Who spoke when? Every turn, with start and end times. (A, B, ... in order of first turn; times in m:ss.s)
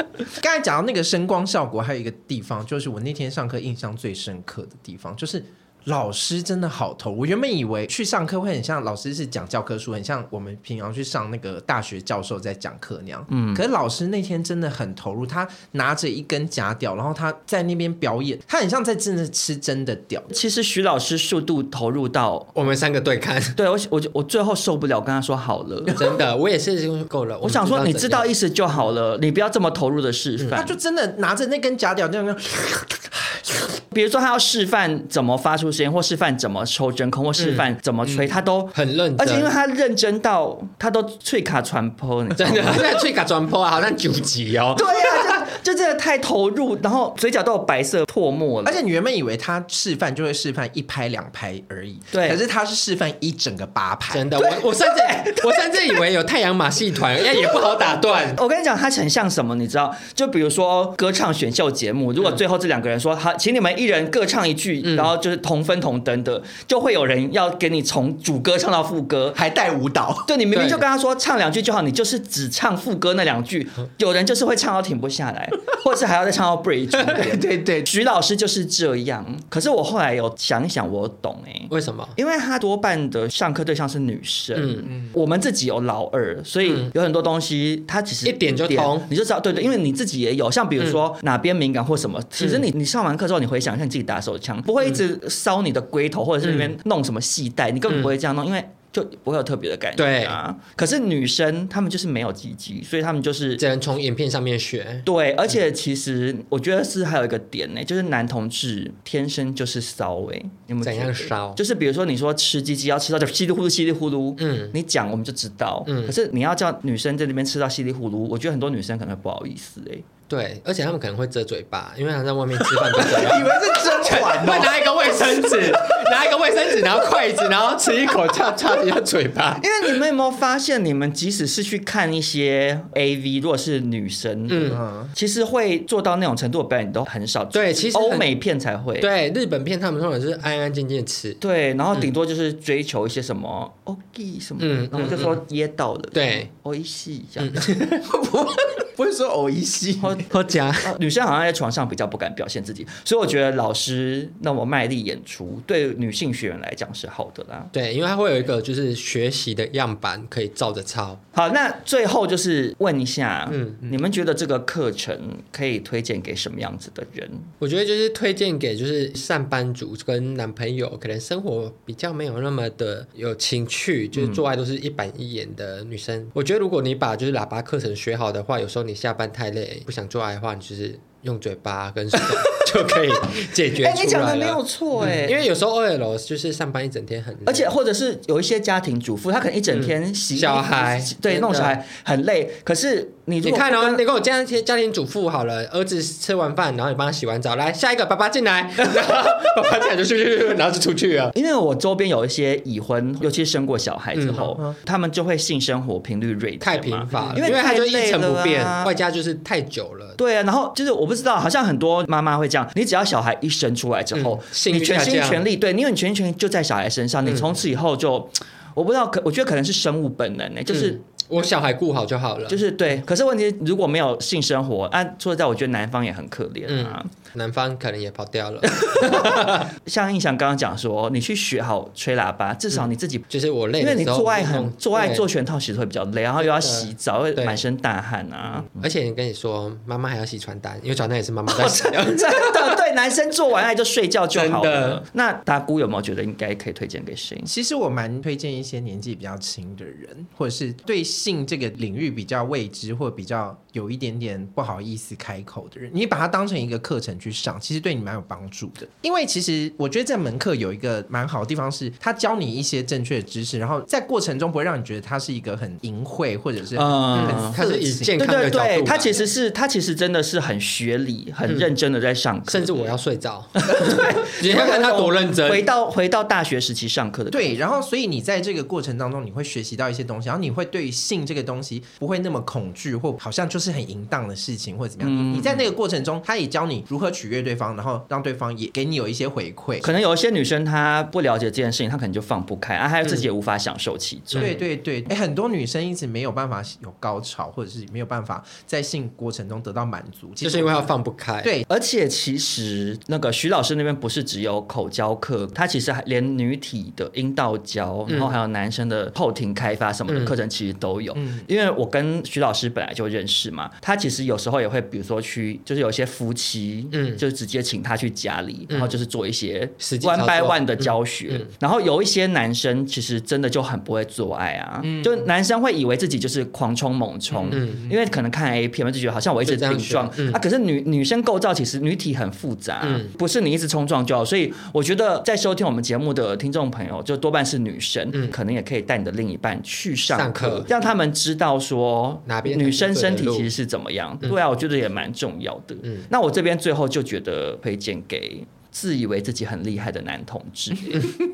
0:00.4-0:20.3 A
0:13.3-0:13.6 B
0:20.3-0:22.5 B
0:22.5-0:23.6 C
0:23.5-0:26.0 B
0:25.9-0:28.3 C
0:27.4-0:30.8 B
0:30.5-0:33.7 A
0:33.9-0:43.0 B
0:37.4-0:37.7 C
0:38.7-0:39.5 C
0:42.4-0:45.5 C
0:44.8-0:48.8 B
0:48.6-0:54.3 A
0:52.1-0:52.4 B
0:54.1-0:58.4 C
0:54.4-0:56.0 B
0:57.5-1:09.4 B
1:04.8-1:05.1 C
1:09.3-1:10.3 A
1:10.3-1:43.6 B
1:10.5-1:10.8 C
1:17.0-1:17.9 A
1:21.7-1:22.2 C
1:24.5-1:24.9 C
1:24.9-1:25.2 A
1:26.6-1:26.9 C
1:28.2-1:29.1 C
1:32.4-1:32.7 C
1:36.4-1:36.7 C
1:37.9-1:38.1 C
1:40.0-1:40.4 C
1:43.6-1:45.0 C
1:45.0-2:00.0 B
1:50.8-1:51.6 C
1:54.4-1:54.8 C
1:55.8-1:56.1 C
2:00.3-2:09.9 C
2:03.0-2:05.8 A
2:09.6-2:19.1 B
2:14.5-2:14.8 C
2:14.7-2:15.1 A
2:17.5-2:18.3 C
2:19.0-2:21.4 C
2:21.4-2:27.7 B
2:24.6-2:25.4 C
2:26.1-2:26.5 C
2:27.4-2:28.0 C
2:28.0-2:30.2 A
2:30.0-2:30.3 B
2:30.3-2:30.9 C
2:30.8-2:37.7 B
2:37.7-2:41.2 C
2:41.3-2:47.5 B
2:43.5-2:43.8 C
2:47.6-3:07.7 C
2:54.1-2:54.4 B
3:02.2-3:02.6 B
3:03.7-3:05.4 B
3:07.4-3:14.0 B
3:09.7-3:11.8 C
3:13.4-3:21.3 C
3:21.3-3:28.9 B
3:24.1-3:24.5 C
3:26.6-3:30.2 C
3:30.2-3:41.0 B
3:34.1-3:35.4 C
3:37.2-3:37.5 C
3:40.7-3:42.6 C
3:42.5-3:47.1 B
3:46.7-3:49.7 C
3:48.8-3:53.2 B
3:53.3-3:55.2 C
3:53.8-3:58.8 B
3:56.4-3:57.6 C
3:58.6-4:02.8 C
4:01.5-4:07.5 B
4:04.3-4:05.0 C
4:07.4-4:28.3 A
4:26.7-4:27.6 B
4:27.1-4:29.1 C
4:28.2-4:32.9 B
4:28.8-4:29.2 A
4:31.4-4:31.7 C
4:32.5-4:35.6 C
4:33.6-4:37.5 B
4:37.3-4:49.9 A
4:45.0-4:45.7 B
4:49.8-4:54.6 B
4:54.4-5:01.6 A
5:00.4-5:01.5 C
5:01.7-5:51.1 B
5:08.1-5:08.4 C
5:10.1-5:10.3 C
5:11.2-5:11.5 A
5:16.9-5:17.2 C
5:18.7-5:19.0 C
5:19.8-5:21.5 C
5:24.8-5:25.3 A
5:27.3-5:27.9 A
5:27.5-5:27.9 C
5:29.4-5:30.4 C
5:32.8-5:33.1 C
5:40.1-5:40.7 C
5:42.2-5:43.5 C